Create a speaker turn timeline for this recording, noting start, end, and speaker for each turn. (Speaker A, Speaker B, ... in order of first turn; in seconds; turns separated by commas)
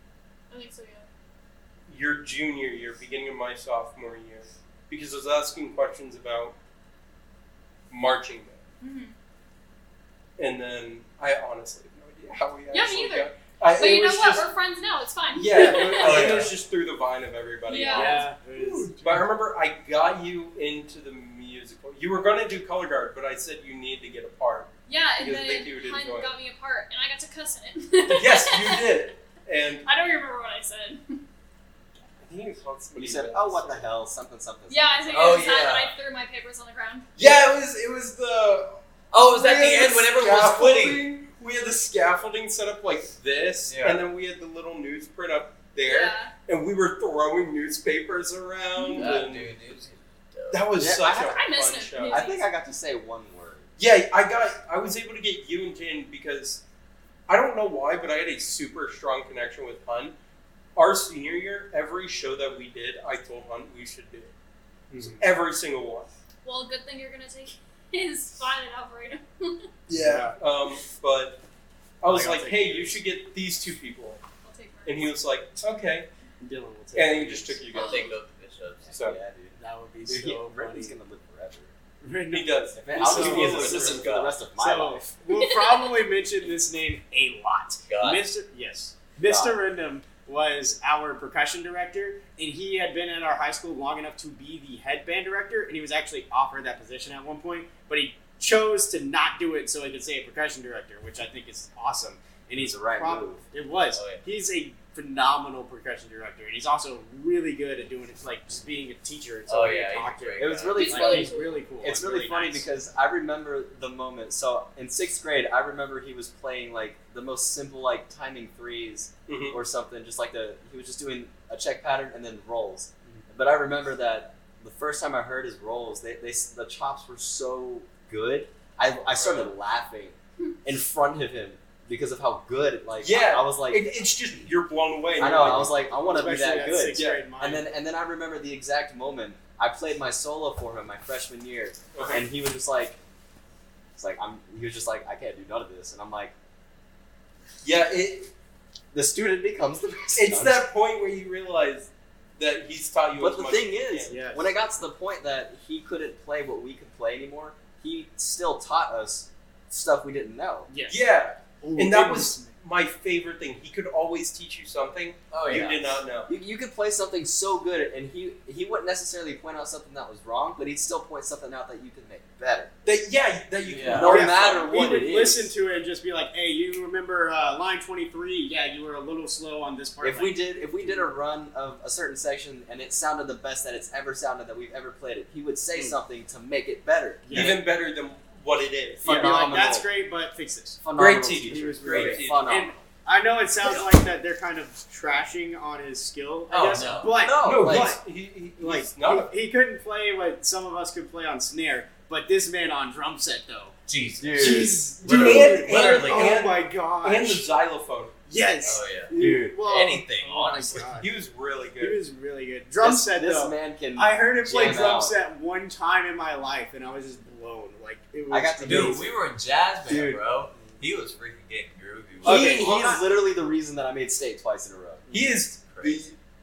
Speaker A: 0.5-1.1, Speaker B: 1.9-6.5, Speaker B: 7.9-8.6, Speaker A: 8.8-9.1, Speaker B: 10.4-14.4, Speaker A: 12.7-16.1, Speaker B: 15.3-26.3, Speaker C: 15.5-16.4, Speaker D: 15.5-16.6, Speaker A: 17.7-18.2, Speaker C: 17.9-19.2, Speaker A: 24.9-29.0, Speaker B: 28.1-29.9, Speaker A: 29.9-31.2, Speaker B: 32.2-33.9, Speaker E: 32.9-35.5, Speaker A: 34.7-37.1, Speaker D: 35.1-35.9, Speaker B: 37.2-49.5, Speaker D: 39.1-41.0, Speaker D: 43.7-44.0, Speaker A: 45.8-46.3, Speaker A: 48.8-49.2, Speaker D: 48.9-50.7, Speaker B: 50.5-52.2, Speaker E: 50.7-51.4, Speaker A: 51.1-52.5, Speaker E: 52.0-53.7, Speaker B: 53.8-56.6, Speaker B: 57.3-60.1, Speaker B: 60.8-64.3, Speaker C: 64.9-65.2, Speaker B: 65.0-66.1, Speaker A: 66.4-69.7, Speaker C: 69.9-70.3, Speaker B: 69.9-71.4, Speaker B: 72.0-74.2, Speaker C: 72.0-73.0, Speaker A: 74.4-75.1, Speaker B: 74.8-76.1, Speaker C: 76.4-77.7, Speaker B: 76.9-78.1, Speaker D: 77.7-78.9, Speaker A: 77.7-78.1, Speaker E: 78.8-79.5, Speaker B: 78.9-79.2, Speaker C: 79.6-81.0, Speaker E: 80.1-81.7, Speaker C: 82.0-83.8, Speaker B: 82.3-84.1, Speaker E: 82.7-85.1, Speaker D: 83.0-84.3, Speaker C: 84.6-112.7, Speaker A: 85.3-86.0, Speaker D: 87.9-88.2, Speaker E: 89.2-89.6, Speaker E: 102.5-103.4, Speaker D: 103.9-104.2, Speaker D: 109.5-110.9, Speaker E: 110.4-134.0, Speaker A: 110.7-111.6, Speaker B: 119.3-119.6, Speaker B: 129.2-129.5, Speaker B: 133.0-135.7, Speaker E: 135.2-143.0, Speaker C: 135.2-137.8, Speaker B: 136.9-137.3, Speaker B: 141.9-142.2, Speaker E: 143.9-146.3, Speaker B: 147.6-148.3, Speaker E: 148.9-150.7, Speaker B: 150.1-154.1, Speaker E: 153.2-160.7, Speaker C: 154.1-154.6, Speaker C: 160.7-161.1, Speaker B: 160.8-166.3, Speaker C: 161.6-162.5, Speaker D: 165.3-166.0, Speaker E: 166.3-172.7, Speaker B: 172.8-174.9, Speaker D: 173.7-174.2, Speaker E: 173.9-175.5, Speaker C: 173.9-181.1, Speaker E: 180.0-187.6, Speaker C: 187.2-187.6, Speaker B: 187.3-189.6, Speaker E: 189.0-189.9, Speaker C: 189.0-198.0, Speaker E: 190.8-192.7, Speaker B: 190.9-192.7, Speaker D: 196.5-197.7, Speaker E: 197.2-197.9, Speaker B: 197.4-199.3, Speaker C: 198.6-203.8, Speaker D: 203.9-206.4, Speaker E: 204.2-204.8, Speaker C: 204.3-207.5, Speaker B: 205.0-208.1, Speaker C: 208.3-211.1, Speaker D: 208.6-211.0, Speaker E: 209.1-209.6, Speaker B: 211.0-212.0, Speaker C: 211.8-219.1, Speaker E: 212.8-215.2, Speaker E: 218.3-219.1, Speaker D: 218.6-222.6, Speaker C: 219.9-220.8, Speaker E: 219.9-220.2, Speaker C: 222.2-223.0, Speaker E: 222.2-225.1, Speaker B: 222.4-222.9, Speaker B: 225.1-226.1, Speaker D: 225.6-226.0